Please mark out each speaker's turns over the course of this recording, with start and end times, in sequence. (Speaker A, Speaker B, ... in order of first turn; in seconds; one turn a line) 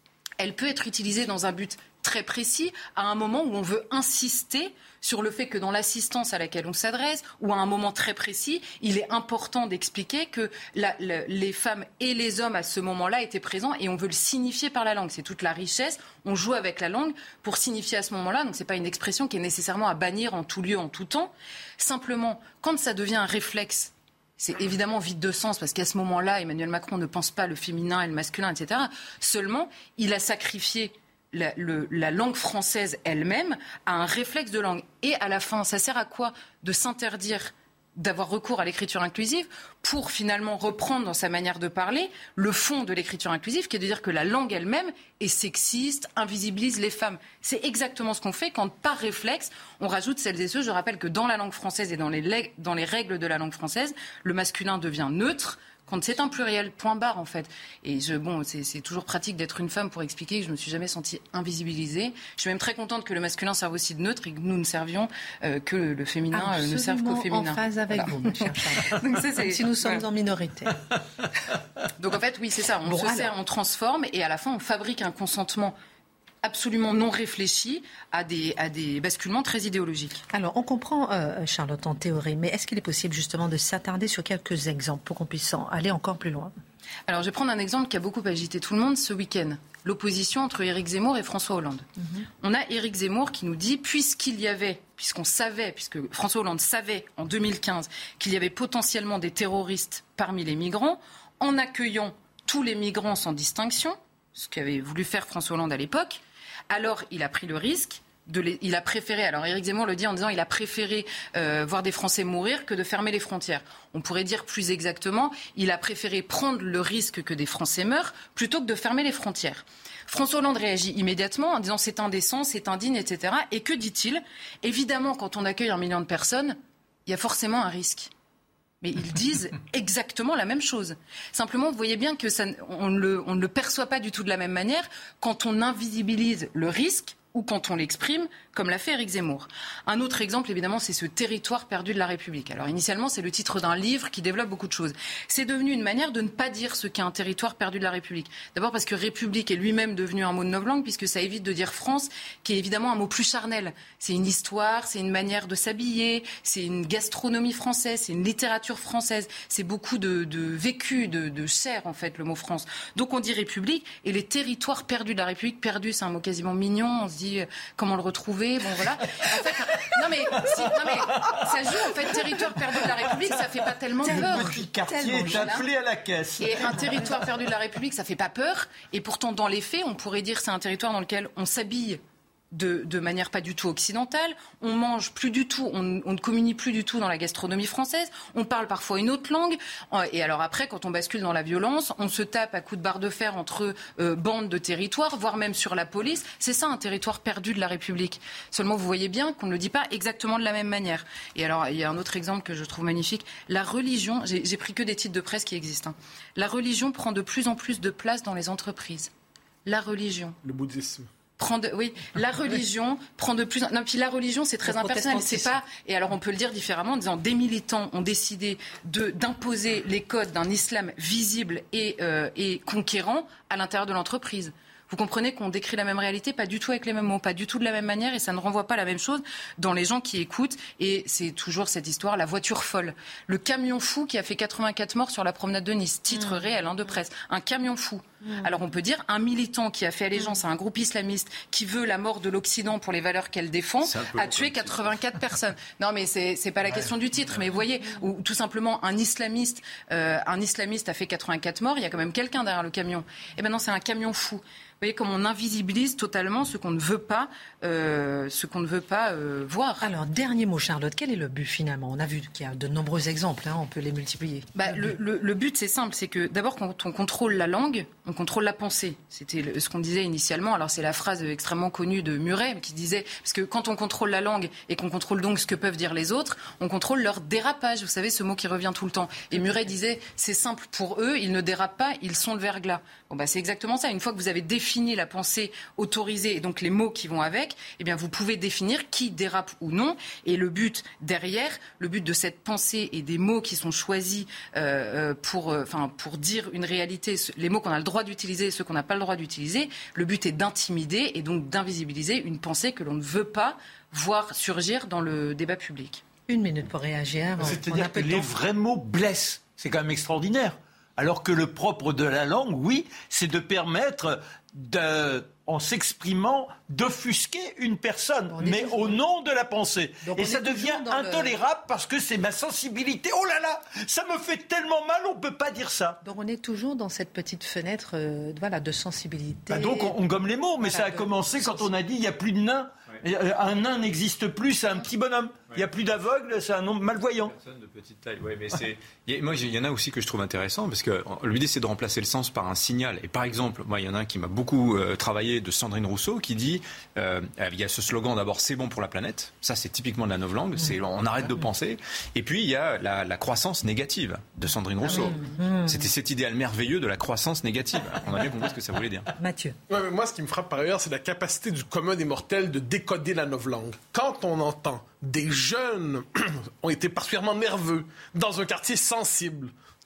Speaker A: 0.4-70.0
Speaker B: 66.3-70.8
Speaker A: 72.0-75.8
Speaker B: 72.8-73.3
Speaker A: 76.4-80.2
Speaker B: 80.3-86.5
Speaker A: 87.1-91.8
Speaker A: 92.4-128.1
Speaker A: 128.8-174.6
Speaker C: 169.2-177.2
Speaker B: 174.0-175.6
Speaker A: 175.2-175.6
Speaker A: 176.4-182.0
Speaker A: 182.5-209.1
Speaker A: 209.6-210.4
Speaker D: 210.4-211.1
Speaker A: 211.4-259.8
Speaker B: 214.7-215.5
Speaker E: 243.8-245.0
Speaker B: 259.8-264.5
Speaker A: 264.5-306.0
Speaker B: 306.3-308.3
Speaker C: 307.4-326.0
Speaker B: 318.3-319.0
Speaker B: 320.0-321.4
Speaker B: 326.0-329.9
Speaker C: 329.5-337.4
Speaker B: 330.6-331.6
Speaker E: 337.3-359.1
Speaker B: 354.8-355.9
Speaker B: 359.2-359.6
Speaker D: 359.7-369.5